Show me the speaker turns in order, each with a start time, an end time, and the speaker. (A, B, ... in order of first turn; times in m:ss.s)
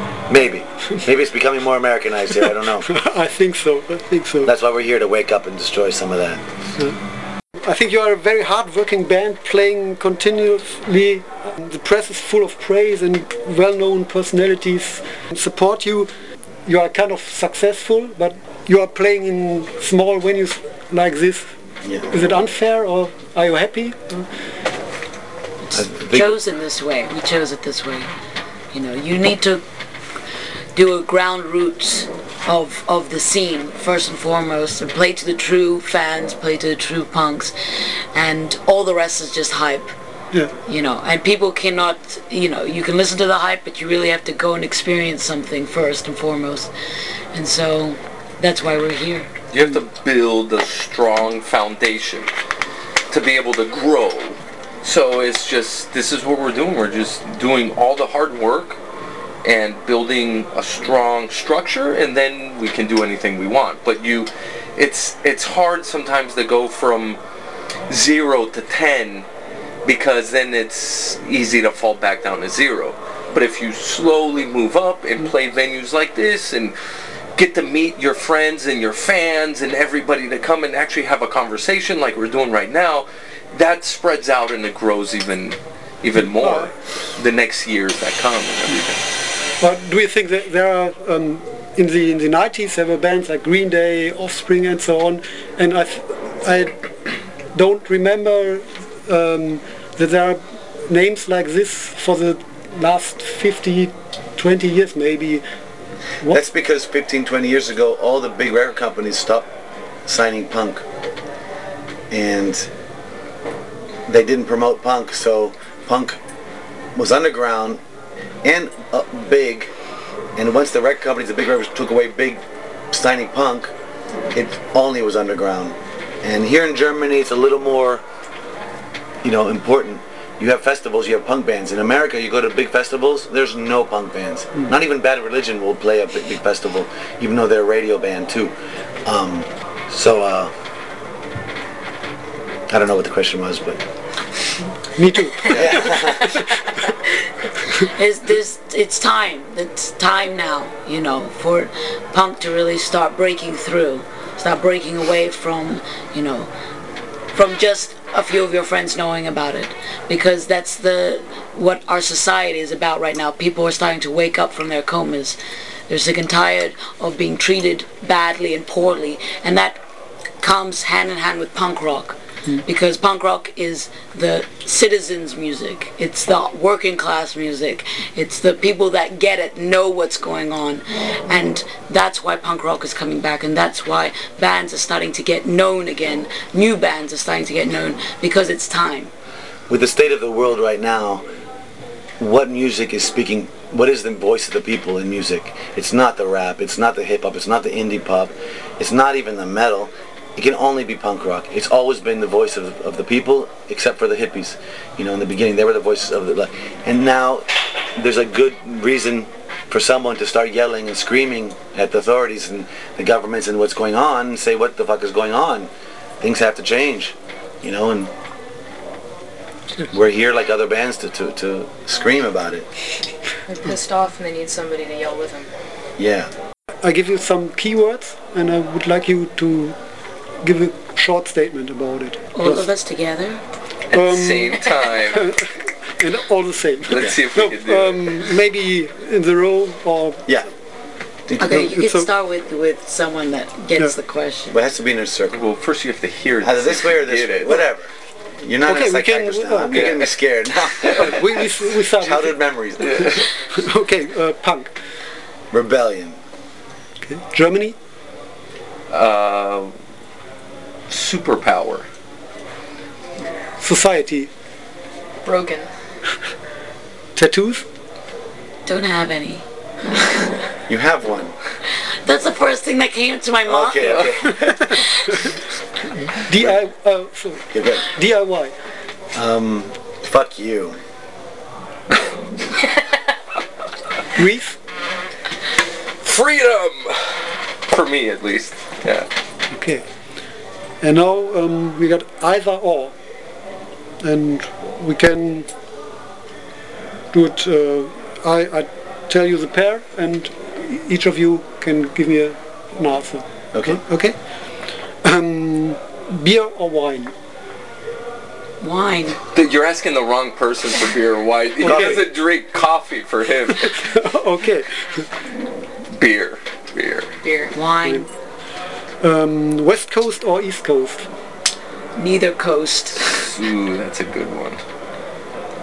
0:00.3-0:02.9 A
0:02.9-0:04.5 B
0:04.4-0:06.4 A
0:07.6-0:16.1 B
0:16.7-0:21.5 B
0:21.8-0:22.1 A
0:22.1-0:24.3 B
0:25.7-0:28.1 C
0:25.7-0:26.3 A
0:28.7-0:29.6 C
0:30.8-0:37.5 C
0:38.1-0:39.9 C
0:40.7-0:46.7 C
0:47.3-0:49.3 C
0:49.5-0:52.3 D
0:53.1-0:58.8 D
0:59.4-1:07.2 D
1:07.9-1:09.3 D
1:09.8-1:16.8 D
1:17.4-1:29.0 D
1:26.4-1:26.7 B
1:29.6-1:36.7 B
1:37.5-1:45.4 B
1:46.3-1:49.5 A
1:50.1-1:50.8 A
1:52.1-1:52.7 A
1:54.1-1:56.2 A
1:57.0-1:57.8 A
1:58.4-1:59.7 A
2:00.4-2:02.4 A
2:02.9-2:03.7 A
2:04.3-2:08.0 A
2:09.2-2:18.6 A
2:19.1-2:20.5 A
2:22.7-2:23.8 A
2:24.9-2:26.0 B
2:25.5-2:26.4 A
2:27.8-2:36.5 C
2:37.3-2:45.4 C
2:45.9-2:49.8 C
2:50.4-3:09.1 C
3:09.7-3:11.3 A
3:12.2-3:35.7 A
3:36.2-3:38.1 A
3:39.9-3:42.7 A
3:43.5-3:45.5 E
3:46.0-3:46.3 A
3:46.8-3:49.8 B
3:50.4-3:52.7 B
3:52.4-3:53.4 C
3:53.9-3:55.3 D
3:53.9-4:00.2 B
3:56.9-3:58.3 D
4:01.3-4:01.7 A
4:01.4-4:04.6 C
4:01.5-4:02.1 B
4:04.5-4:05.4 A
4:05.3-4:07.6 D
4:06.4-4:13.2 A
4:08.7-4:10.0 B
4:09.7-4:10.2 D
4:10.9-4:12.4 B
4:12.8-4:13.3 D
4:13.0-4:14.7 B
4:15.5-4:16.2 A
4:17.0-4:17.8 B
4:18.9-4:19.7 D
4:20.9-4:21.9 D
4:23.6-4:24.3 B
4:25.2-4:25.7 E
4:27.2-4:27.7 B
4:28.7-4:30.4 C
4:30.7-4:31.4 A
4:32.0-4:35.2 C
4:33.4-4:34.6 A
4:36.1-4:38.5 B
4:37.5-4:37.9 A
4:39.1-4:40.8 A
4:44.2-4:44.6 B
4:46.0-4:49.1 D
4:49.5-4:49.8 B
4:50.8-4:53.0 B
4:54.0-4:55.5 B
4:57.1-5:04.2 B
5:03.5-5:03.8 A
5:05.0-5:07.1 B
5:08.6-5:09.2 C
5:09.3-5:13.8 D
5:11.6-5:12.0 B
5:11.6-5:12.0 A
5:13.6-5:15.0 B
5:15.9-5:17.1 D
5:17.2-5:17.5 E
5:17.5-5:18.1 C
5:19.0-5:21.1 B
5:22.0-5:23.2 C
5:23.1-5:24.6 D